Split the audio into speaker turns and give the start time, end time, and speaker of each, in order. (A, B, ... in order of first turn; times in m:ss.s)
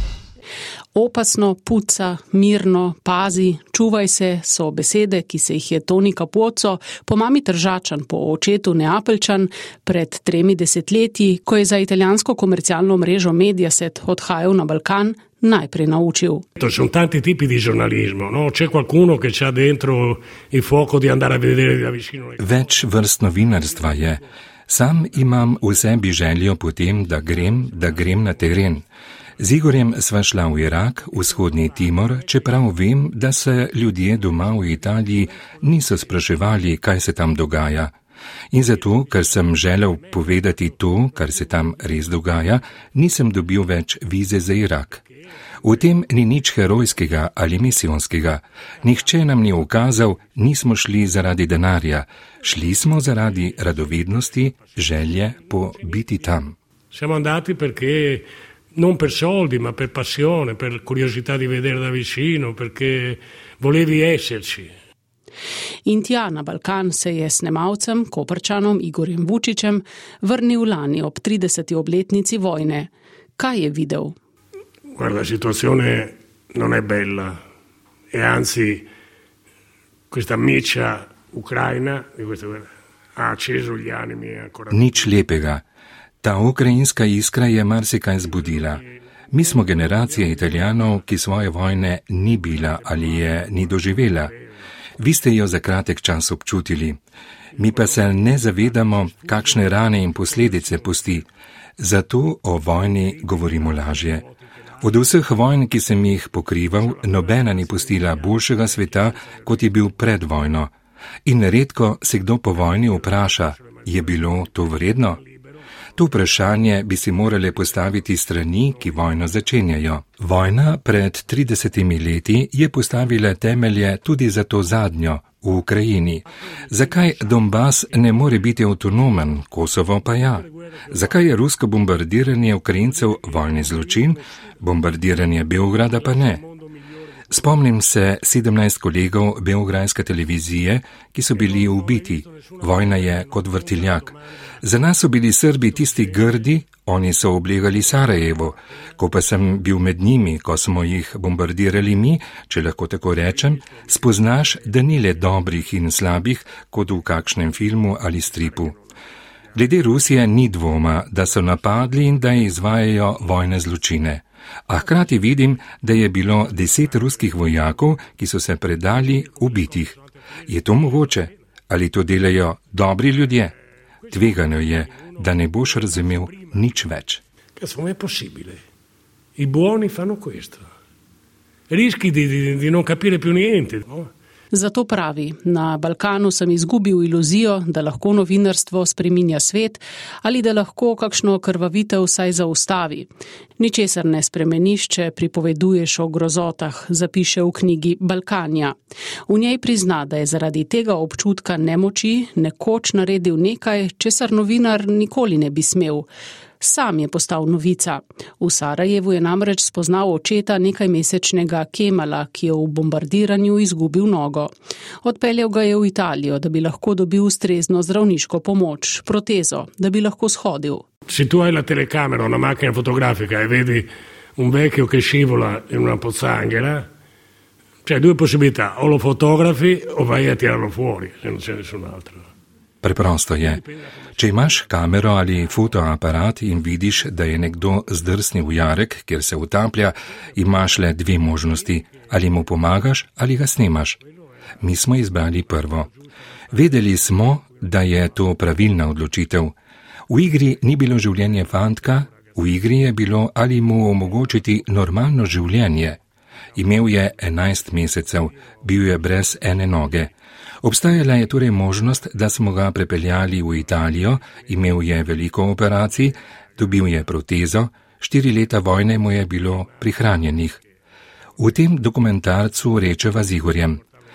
0:00.9-0:16.4 A
0:16.6-0:22.6 B
0:22.4-0:28.9 C
0:27.9-0:28.4 B
0:29.4-0:37.9 C
0:38.5-0:45.0 C
0:45.6-0:56.5 C
0:53.3-0:54.8 B
0:56.9-1:04.7 B
1:05.8-1:14.2 A
1:14.9-1:17.4 B
1:18.1-1:18.9 B
1:20.1-1:25.1 B
1:24.7-1:25.6 C
1:26.2-1:34.3 C
1:29.7-1:30.8 B
1:32.4-1:34.4 B
1:35.0-1:37.0 C
1:37.6-1:41.1 B
1:37.6-1:41.3 C
1:41.8-1:44.2 C
1:43.1-1:45.1 B
1:44.8-1:50.7 C
1:46.7-1:49.9 B
1:51.2-1:55.2 C
1:52.9-1:56.3 B
1:56.0-2:16.4 C
2:06.6-2:08.6 B
2:10.1-2:11.3 B
2:12.8-2:14.3 B
2:15.7-2:17.4 B
2:17.3-2:38.8 C
2:21.3-2:24.2 B
2:25.5-2:26.6 B
2:33.6-2:34.0 B
2:39.5-2:49.9 C
2:46.7-2:47.5 B
2:49.0-2:51.2 B
2:50.5-2:53.5 C
2:54.1-2:57.2 C
2:54.2-2:56.5 B
2:57.6-2:58.6 B
2:59.4-3:00.7 B
3:01.7-3:04.1 B
3:04.5-3:18.8 A
3:19.3-3:26.1 A
3:26.6-3:40.8 A
3:41.1-3:46.8 B
3:47.8-3:52.2 B
3:52.8-3:53.6 C
3:53.4-3:54.7 B
3:54.2-4:04.0 C
4:01.5-4:02.1 B
4:04.6-4:05.9 C
4:05.5-4:06.0 B
4:06.5-4:09.5 C
4:06.5-4:07.1 B
4:10.1-4:16.0 C
4:12.1-4:12.4 B
4:16.6-4:20.1 C
4:20.6-4:30.6 C
4:31.4-4:33.8 C